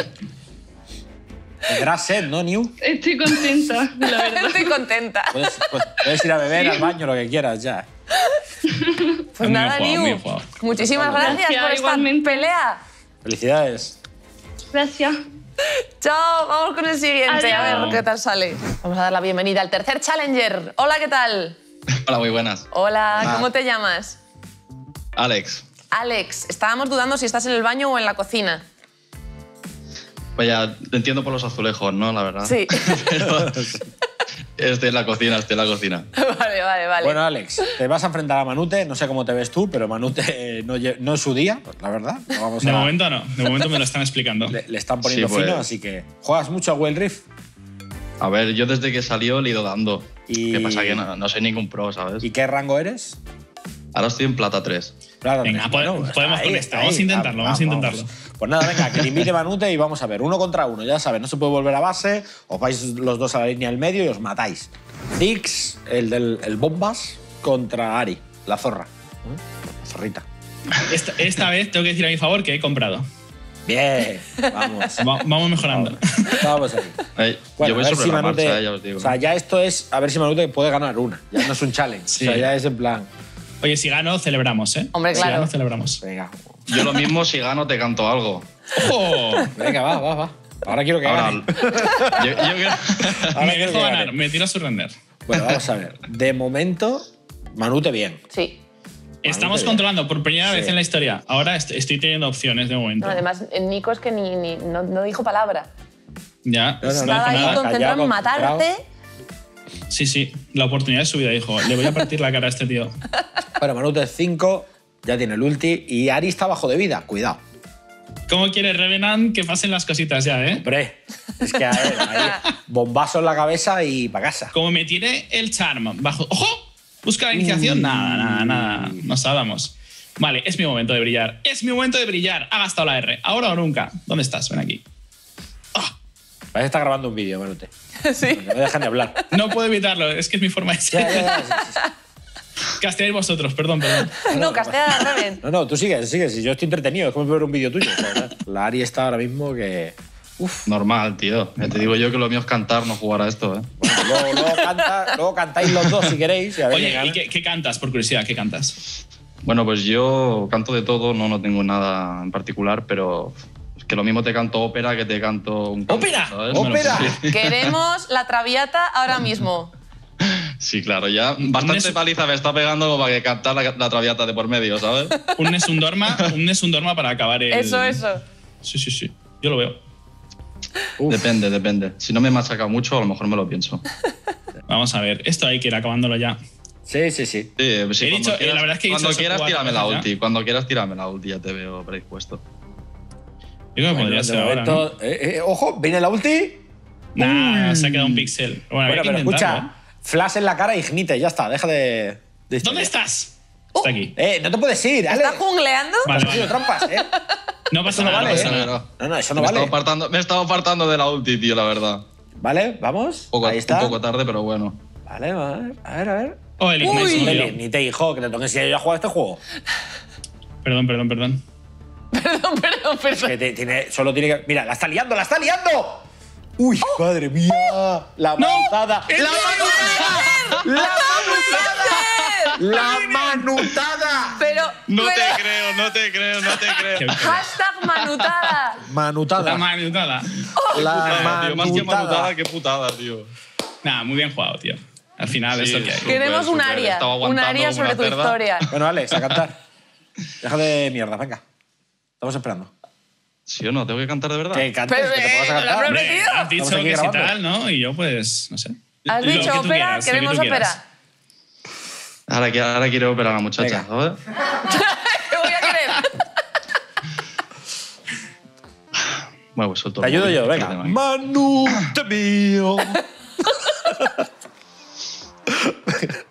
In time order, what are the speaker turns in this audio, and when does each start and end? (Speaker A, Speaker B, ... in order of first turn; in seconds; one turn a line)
Speaker A: 1.7-2.8
Speaker B: 2.8-4.8
Speaker C: 4.0-5.7
Speaker A: 5.3-7.9
Speaker B: 6.5-6.8
Speaker B: 8.7-9.1
Speaker C: 9.3-12.8
Speaker D: 9.4-10.5
Speaker A: 10.6-11.4
Speaker B: 11.2-12.5
Speaker A: 13.2-14.0
Speaker B: 14.7-15.2
Speaker C: 16.0-21.6
Speaker B: 17.3-18.0
Speaker D: 17.5-18.0
Speaker E: 22.1-22.7
Speaker C: 22.7-24.2
Speaker A: 23.2-23.4
Speaker E: 23.2-23.5
Speaker E: 25.2-25.6
Speaker C: 25.9-28.6
Speaker E: 30.4-33.7
Speaker C: 32.5-33.0
Speaker E: 34.6-36.1
Speaker C: 36.2-37.7
Speaker A: 37.0-43.0
Speaker D: 42.6-44.6
Speaker A: 44.5-47.2
Speaker E: 45.0-45.7
Speaker E: 48.2-52.3
Speaker A: 50.3-51.0
Speaker A: 52.2-53.2
Speaker E: 53.9-54.9
Speaker A: 55.2-70.2
Speaker D: 55.4-58.1
Speaker D: 70.9-73.0
Speaker A: 73.7-77.0
Speaker D: 75.0-76.5
Speaker E: 77.2-79.2
Speaker A: 77.6-83.1
Speaker D: 82.1-82.4
Speaker D: 83.6-86.0
Speaker C: 84.9-85.5
Speaker A: 85.1-85.4
Speaker A: 86.0-86.8
Speaker E: 86.7-88.5
Speaker D: 88.8-89.5
Speaker A: 89.5-92.3
Speaker E: 91.0-93.4
Speaker C: 91.7-92.1
Speaker A: 93.3-94.2
Speaker D: 93.4-94.9
Speaker A: 95.3-98.2
Speaker C: 98.3-98.6
Speaker D: 99.2-103.2
Speaker A: 99.3-99.9
Speaker A: 100.4-100.8
Speaker C: 103.0-105.7
Speaker D: 106.5-107.6
Speaker A: 106.8-108.7
Speaker C: 107.0-108.8
Speaker D: 109.9-112.9
Speaker A: 113.6-117.4
Speaker D: 118.3-120.6
Speaker A: 120.6-124.5
Speaker C: 122.2-122.4
Speaker D: 124.5-134.8
Speaker A: 136.5-137.7
Speaker C: 138.1-139.3
Speaker A: 138.3-139.1
Speaker D: 139.3-141.4
Speaker A: 140.9-141.8
Speaker C: 141.5-141.9
Speaker D: 142.8-144.2
Speaker C: 144.2-145.4
Speaker A: 144.3-150.7
Speaker E: 150.7-153.7
Speaker A: 151.6-151.9
Speaker A: 153.8-157.2
Speaker C: 153.9-154.8
Speaker D: 156.7-158.8
Speaker E: 159.4-167.7
Speaker A: 165.9-167.2
Speaker D: 166.5-167.1
Speaker C: 167.2-169.7
Speaker E: 170.6-175.3
Speaker D: 171.4-172.0
Speaker D: 175.3-178.0
Speaker C: 177.5-178.2
Speaker D: 178.6-179.8
Speaker A: 181.0-181.3
Speaker E: 181.1-183.8
Speaker D: 184.7-186.4
Speaker A: 186.9-187.5
Speaker E: 187.6-192.4
Speaker D: 188.0-190.1
Speaker D: 193.8-194.9
Speaker A: 193.9-196.6
Speaker D: 197.2-199.7
Speaker A: 197.2-198.3
Speaker A: 198.9-202.9
Speaker D: 202.6-204.2
Speaker A: 204.2-205.4
Speaker C: 205.1-206.2
Speaker D: 206.0-206.6
Speaker A: 206.1-207.1
Speaker C: 206.8-207.3
Speaker D: 207.7-208.7
Speaker A: 207.9-209.8
Speaker E: 207.9-208.8
Speaker E: 209.4-212.0
Speaker A: 212.4-214.0
Speaker E: 213.3-214.8
Speaker A: 215.1-219.4
Speaker D: 216.6-217.6
Speaker C: 216.8-217.4
Speaker D: 220.6-221.4
Speaker C: 222.1-223.4
Speaker A: 223.2-226.1
Speaker A: 226.6-232.1
Speaker D: 228.4-230.6
Speaker C: 229.8-232.8
Speaker A: 232.6-234.4
Speaker C: 234.4-235.5
Speaker E: 234.9-237.4
Speaker D: 237.0-237.4
Speaker C: 237.1-238.8
Speaker A: 238.9-239.7
Speaker D: 239.4-240.5
Speaker C: 240.6-241.4
Speaker A: 240.7-242.3
Speaker E: 240.7-243.3
Speaker D: 243.8-246.1
Speaker E: 245.5-248.4
Speaker C: 246.1-248.7
Speaker A: 248.7-249.6
Speaker A: 250.4-251.4
Speaker A: 252.2-252.7
Speaker E: 253.5-254.7
Speaker A: 254.5-256.0
Speaker C: 254.9-256.5
Speaker D: 255.9-260.8
Speaker A: 256.6-257.4
Speaker C: 259.1-260.8
Speaker E: 262.3-264.2
Speaker A: 263.6-263.9
Speaker C: 264.5-266.1
Speaker E: 269.0-271.0
Speaker A: 270.0-273.0
Speaker A: 273.8-274.2
Speaker A: 275.5-276.2